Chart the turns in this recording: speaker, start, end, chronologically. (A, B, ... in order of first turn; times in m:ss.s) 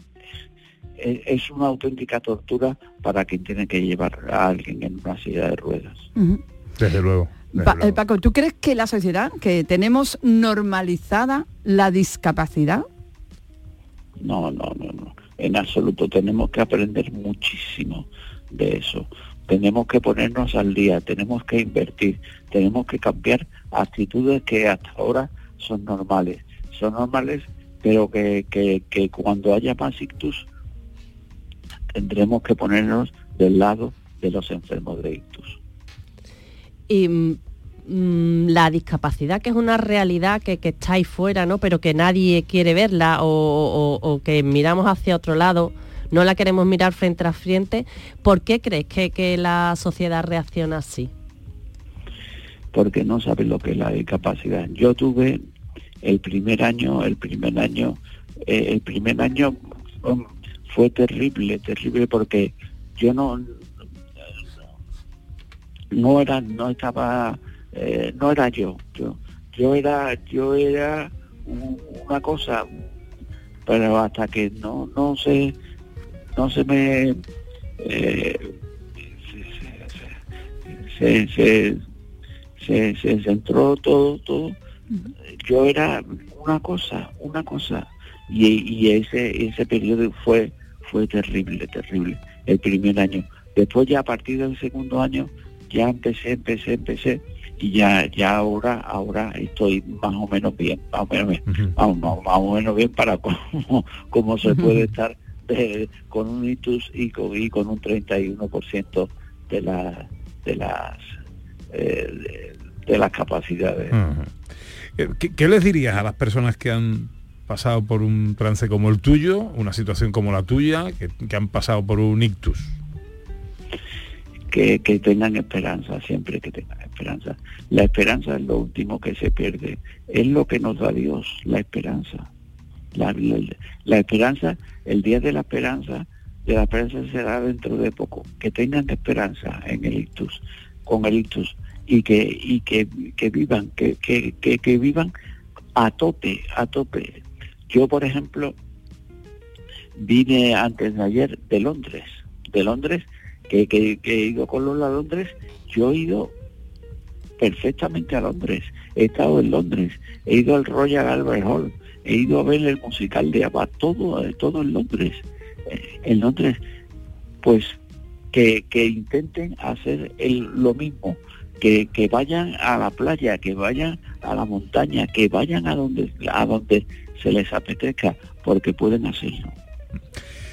0:01.0-0:06.1 A
0:06.2-0:06.4 B
0:06.8-0:08.0 C
0:07.5-0:12.9 B
0:14.2-0:30.5 A
0:32.0-0:35.6 A
0:36.9-0:51.1 D
0:52.7-0:55.4 A
0:56.0-1:03.5 A
1:05.9-1:12.7 A
1:13.7-1:15.6 A
1:16.4-1:17.2 A
1:17.8-1:18.5 A
1:19.3-1:20.2 A
1:20.7-1:21.8 A
1:22.6-1:24.6 A
1:25.4-1:51.0 A
1:41.5-1:41.7 C
1:51.7-1:54.0 A
1:53.9-1:54.3 C
1:55.0-2:02.7 C
2:04.5-2:12.3 A
2:13.0-2:25.1 A
2:25.8-2:28.6 A
2:30.0-2:36.3 A
2:37.4-2:46.6 A
2:47.4-2:47.8 A
2:48.3-2:59.6 A